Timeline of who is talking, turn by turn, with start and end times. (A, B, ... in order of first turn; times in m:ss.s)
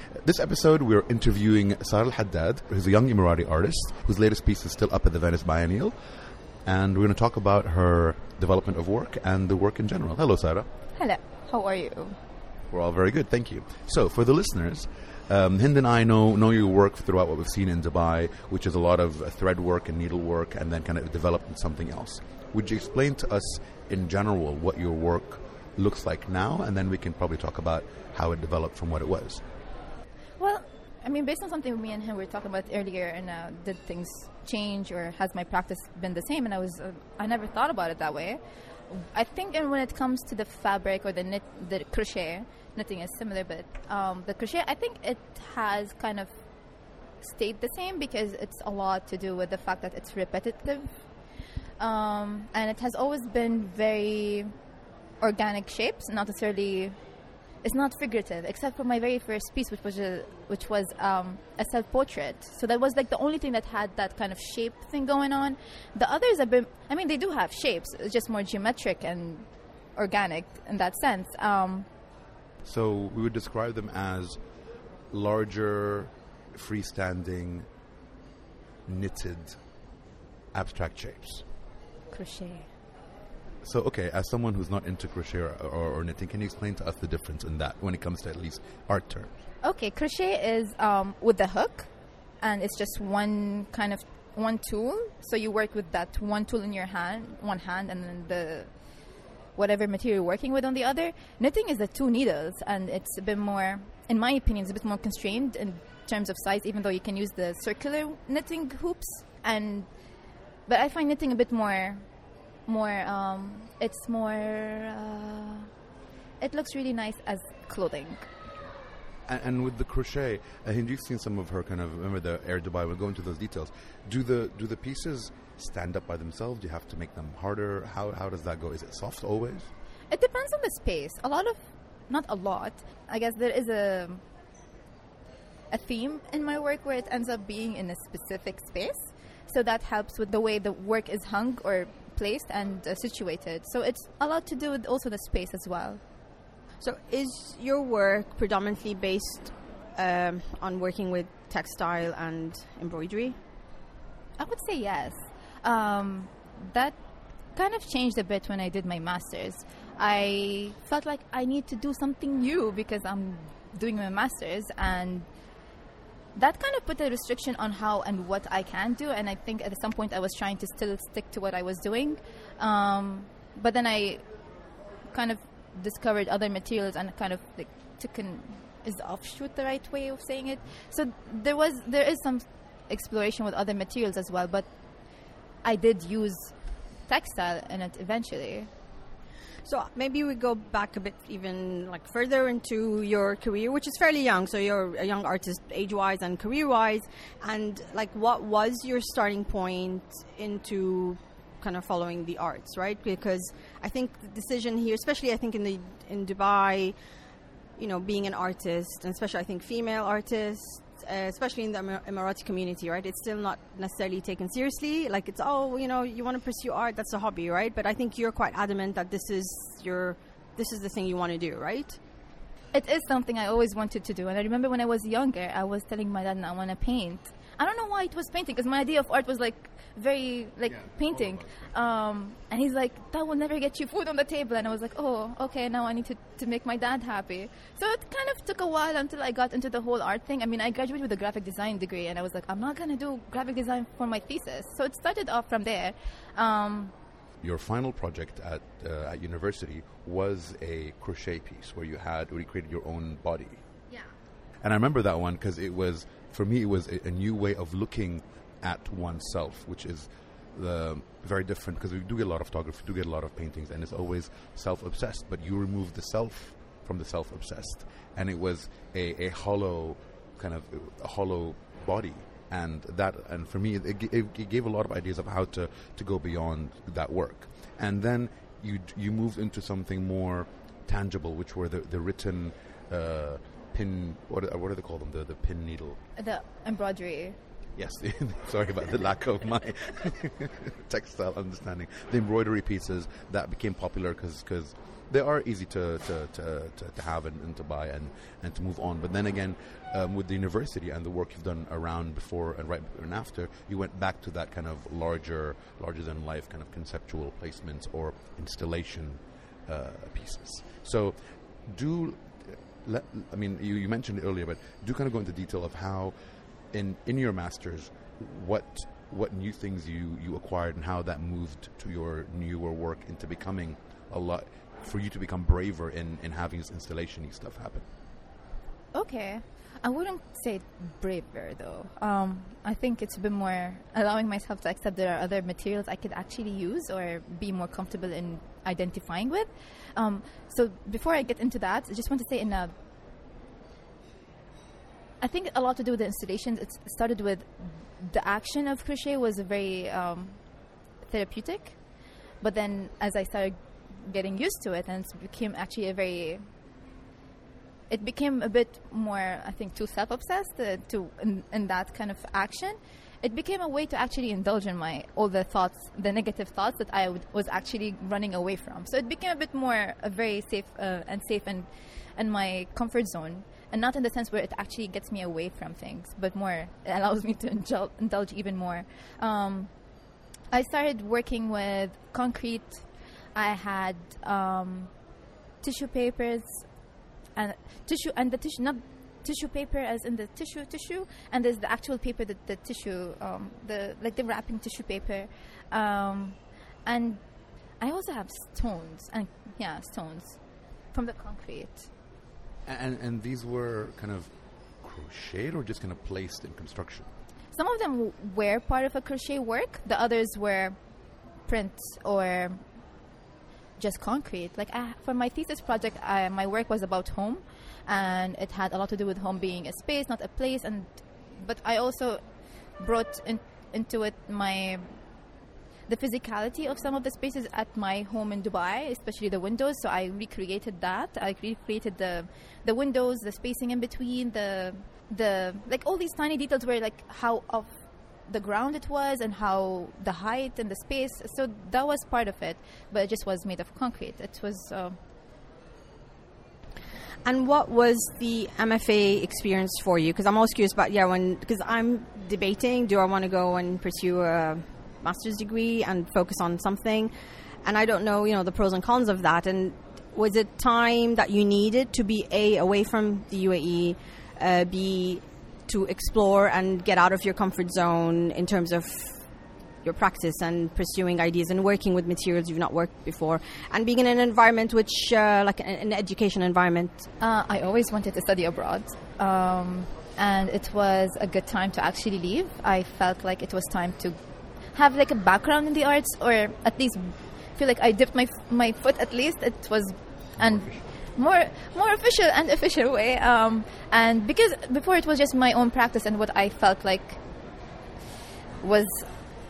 0:00.2-0:06.0 A
0:06.7-0:10.7 A
0:11.0-0:12.2 B
0:12.7-0:29.4 A
0:30.4-0:46.3 B
0:47.2-0:50.9 B
0:51.8-0:54.5 B
0:55.2-0:57.0 B
0:57.6-1:11.9 B
1:12.6-1:14.4 A
1:15.1-1:17.7 A
1:18.9-1:19.6 A
1:20.5-1:21.4 A
1:22.1-1:22.7 B
1:23.6-1:29.3 A
1:29.6-1:31.9 B
1:32.4-1:38.7 B
1:39.6-1:49.9 B
1:50.7-1:52.0 B
1:52.7-1:55.7 B
1:56.4-1:58.3 B
1:59.3-2:09.7 A
2:10.1-2:14.2 B
2:15.7-2:26.0 B
2:26.8-2:33.4 C
2:34.4-2:37.0 B
2:37.6-2:45.3 B
2:46.4-2:54.2 B
2:55.1-3:04.7 B
3:05.6-3:06.5 B
3:07.1-3:08.7 B
3:09.6-3:27.0 C
3:27.8-3:42.0 C
3:42.7-4:06.9 B
4:07.4-4:13.6 A
4:14.6-4:46.0 A
4:46.2-4:47.4 B
4:47.8-5:16.1 A
5:16.7-5:27.9 A
5:28.9-5:42.7 B
5:45.2-5:50.4 B
5:51.0-5:51.8 B
5:52.4-5:56.4 B
5:57.9-6:19.7 B
6:20.5-6:22.8 B
6:23.4-6:24.9 B
6:25.6-6:26.6 B
6:27.4-6:37.2 B
6:37.8-6:40.4 B
6:40.9-6:41.9 B
6:42.7-6:44.3 A
6:44.8-6:47.1 A
6:47.5-6:50.8 B
6:51.5-6:52.6 B
6:53.8-7:02.2 B
7:02.8-7:04.8 B
7:05.9-7:17.7 B
7:18.3-7:25.0 B
7:27.2-7:37.1 C
7:37.6-7:49.2 C
7:49.8-7:57.0 C
7:57.2-8:04.2 B
8:04.7-8:17.2 B
8:18.6-8:19.1 B